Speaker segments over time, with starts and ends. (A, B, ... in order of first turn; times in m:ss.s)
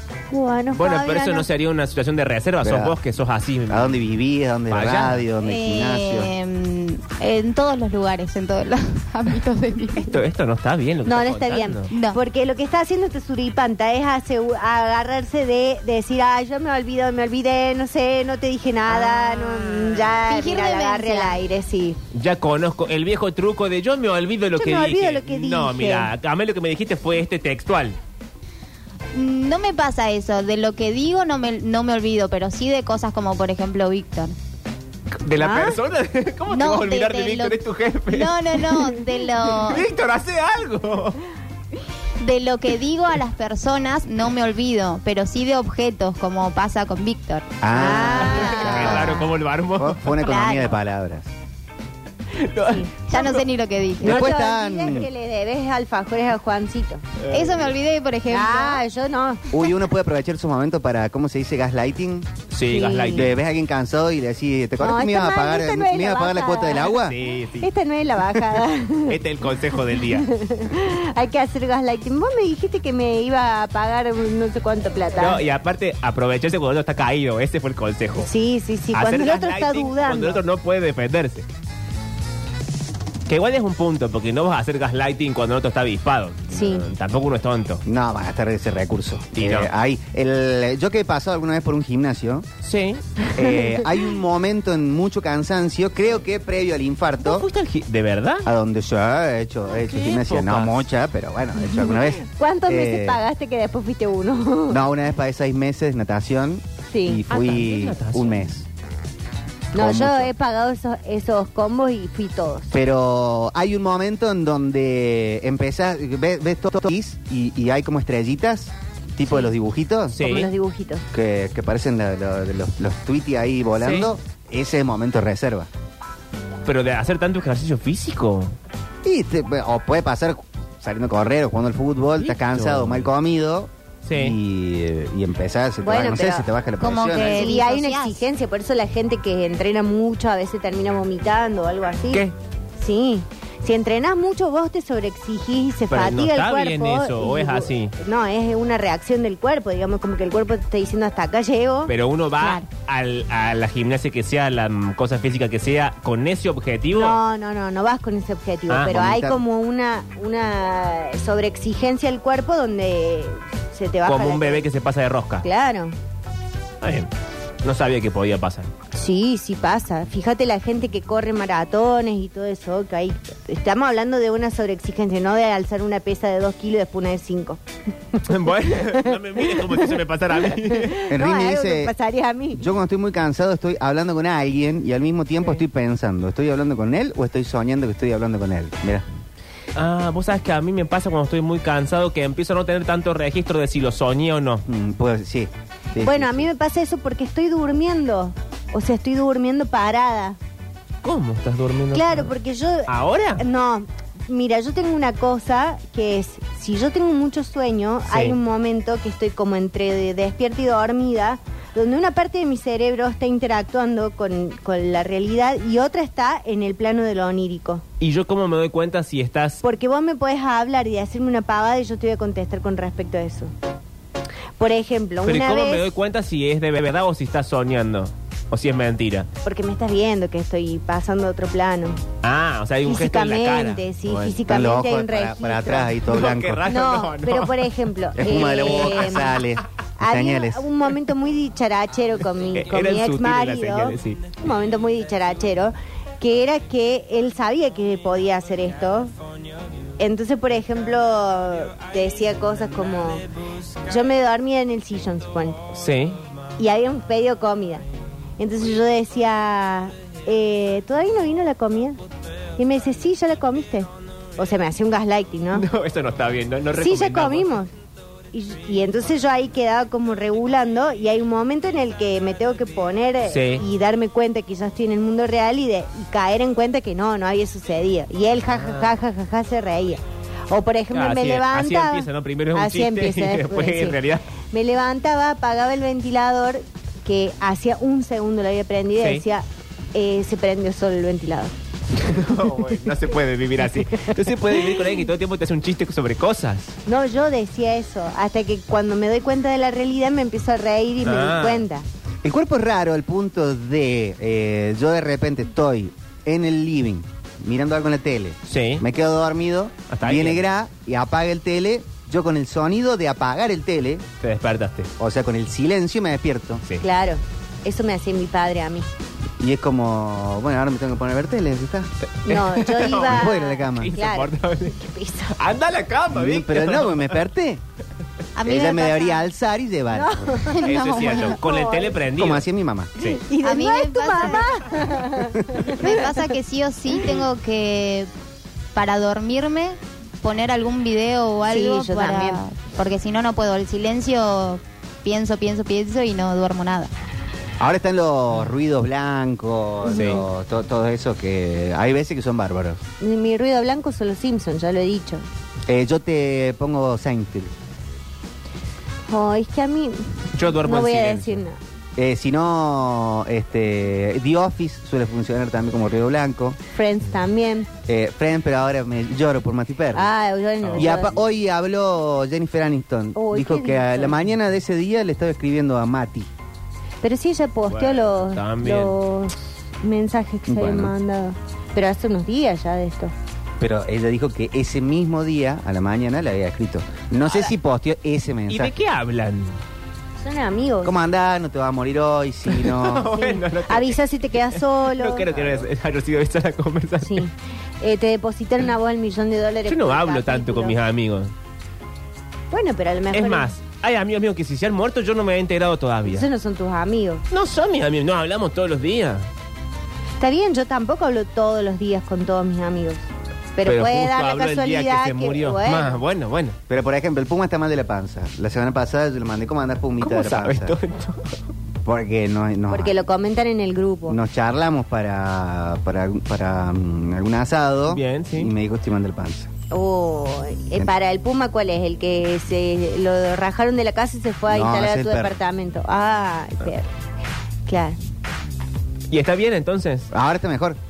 0:00.3-0:01.5 A
0:00.7-0:04.0 B
0:02.6-0:03.0 C
0:03.7-0:06.3 C
0:04.7-0:05.2 B
0:05.4-0:10.2 D
0:09.9-0:11.9 B
0:11.0-0:22.0 A
0:11.9-0:12.2 D
0:19.6-0:21.4 D
0:22.1-0:28.0 B
0:24.6-0:26.1 A
0:29.1-0:34.3 D
0:35.2-0:41.2 B
0:35.4-0:35.8 A
0:36.5-0:37.6 D
0:38.1-0:39.8 D
0:42.2-0:47.5 D
0:47.6-0:51.3 C
0:47.7-0:49.0 A
0:48.0-0:50.2 B
0:48.2-0:49.2 D
0:50.2-0:50.7 D
0:52.3-0:53.4 B
0:53.1-0:54.2 D
0:54.0-0:55.1 C
0:54.0-0:57.0 A
0:57.2-0:57.7 B
0:57.3-0:58.8 D
0:58.3-0:59.5 A
0:59.5-1:02.3 C
1:02.5-1:03.3 B
1:02.6-1:03.3 A
1:03.1-1:07.2 C
1:04.8-1:07.0 A
1:07.0-1:10.3 B
1:07.6-1:09.2 A
1:09.9-1:15.4 A
1:15.2-1:18.3 B
1:18.2-1:20.4 A
1:18.9-1:21.4 B
1:23.3-1:27.8 B
1:26.5-1:26.9 A
1:27.8-1:32.4 C
1:29.3-1:29.7 B
1:32.6-1:33.3 B
1:33.3-1:37.5 C
1:37.2-1:38.5 B
1:38.4-1:43.2 C
1:39.8-1:40.8 B
1:41.7-1:44.8 A
1:44.7-1:48.7 C
1:46.9-1:47.2 A
1:47.3-1:48.4 B
1:49.7-1:52.7 A
1:49.7-1:50.3 C
1:52.7-2:00.2 C
2:00.2-2:00.5 B
2:00.2-2:01.0 A
2:01.1-2:05.7 C
2:03.8-2:04.1 B
2:06.6-2:08.5 B
2:09.0-2:17.5 C
2:12.2-2:13.1 B
2:14.0-2:14.4 B
2:15.8-2:16.5 A
2:16.8-2:18.2 D
2:17.1-2:22.2 A
2:22.8-2:32.6 A
2:25.9-2:27.9 B
2:31.9-2:37.2 B
2:36.9-2:44.7 A
2:38.7-2:39.0 B
2:38.9-2:39.4 C
2:44.0-2:45.4 B
2:45.4-2:45.9 A
2:46.8-2:47.1 B
2:47.6-2:48.7 B
2:48.9-2:57.6 A
2:58.2-3:01.0 B
2:58.7-2:59.9 A
3:00.6-3:02.6 A
3:01.1-3:01.9 C
3:02.5-3:09.0 C
3:09.7-3:14.6 B
3:14.6-3:16.5 C
3:16.0-3:20.4 A
3:21.0-3:22.3 B
3:21.9-3:37.8 A
3:22.9-3:23.4 B
3:28.1-3:28.4 B
3:38.0-3:39.6 B
3:39.6-3:43.5 A
3:44.6-3:45.8 A
3:45.2-3:49.3 B
3:49.4-3:52.0 A
3:52.2-3:54.4 B
3:52.8-3:56.0 A
3:54.4-3:56.7 C
3:56.1-3:57.7 B
3:56.6-3:59.4 A
3:58.2-4:00.7 C
3:58.3-3:59.4 B
4:00.0-4:09.1 A
4:02.5-4:04.3 B
4:10.0-4:13.2 A
4:13.8-4:15.6 A
4:15.7-4:16.2 B
4:16.6-4:17.8 A
4:18.4-4:22.0 A
4:22.6-4:25.7 A
4:25.5-4:27.5 B
4:26.7-4:27.7 A
4:28.3-4:51.5 A
4:33.3-4:33.6 B
4:38.5-4:38.9 B
4:40.9-4:44.2 B
4:52.0-4:56.8 B
4:56.9-5:01.8 A
5:01.0-5:01.6 B
5:02.2-5:14.0 C
5:08.5-5:08.8 B
5:09.9-5:10.4 B
5:14.2-5:14.9 B
5:15.0-5:16.6 C
5:16.8-5:18.9 A
5:19.4-5:21.9 C
5:22.1-5:24.8 B
5:22.2-5:25.4 A
5:23.0-5:23.9 C
5:25.4-5:27.2 B
5:26.1-5:27.6 C
5:28.4-5:29.2 D
5:28.4-5:30.4 C
5:29.9-5:32.0 A
5:30.5-5:31.4 D
5:30.6-5:32.4 B
5:32.2-5:32.9 C
5:33.0-5:36.3 A
5:33.4-5:34.8 D
5:35.7-5:38.1 D
5:38.7-5:46.9 D
5:41.5-5:42.4 A
5:47.6-5:52.8 C
5:49.9-5:50.2 B
5:53.0-5:55.2 A
5:55.7-5:57.5 C
5:59.1-6:01.6 A
6:00.3-6:01.4 B
6:02.0-6:06.6 C
6:06.7-6:07.7 A
6:07.9-6:10.1 C
6:09.9-6:11.2 A
6:10.6-6:10.9 B
6:10.8-6:16.3 C
6:13.1-6:14.2 A
6:17.0-6:23.1 A
6:17.7-6:18.9 B
6:20.5-6:20.9 C
6:23.6-6:28.7 C
6:28.5-6:29.6 B
6:30.2-6:31.0 A
6:30.8-6:33.1 C
6:32.5-6:37.2 B
6:33.1-6:35.3 A
6:37.0-6:40.8 A
6:39.7-6:41.3 B
6:42.5-6:43.5 A
6:43.1-6:46.3 B
6:46.0-6:47.2 A
6:47.3-6:49.3 B
6:50.2-6:53.0 A
6:53.6-6:56.0 A
6:53.6-6:56.6 B
6:56.7-7:00.8 C
7:00.0-7:01.4 B
7:01.8-7:02.9 C
7:02.7-7:04.2 A
7:04.1-7:09.5 C
7:07.9-7:08.5 B
7:09.7-7:16.9 A
7:14.5-7:15.3 C
7:17.7-7:18.0 A
7:19.1-7:20.1 B
7:20.1-7:20.8 C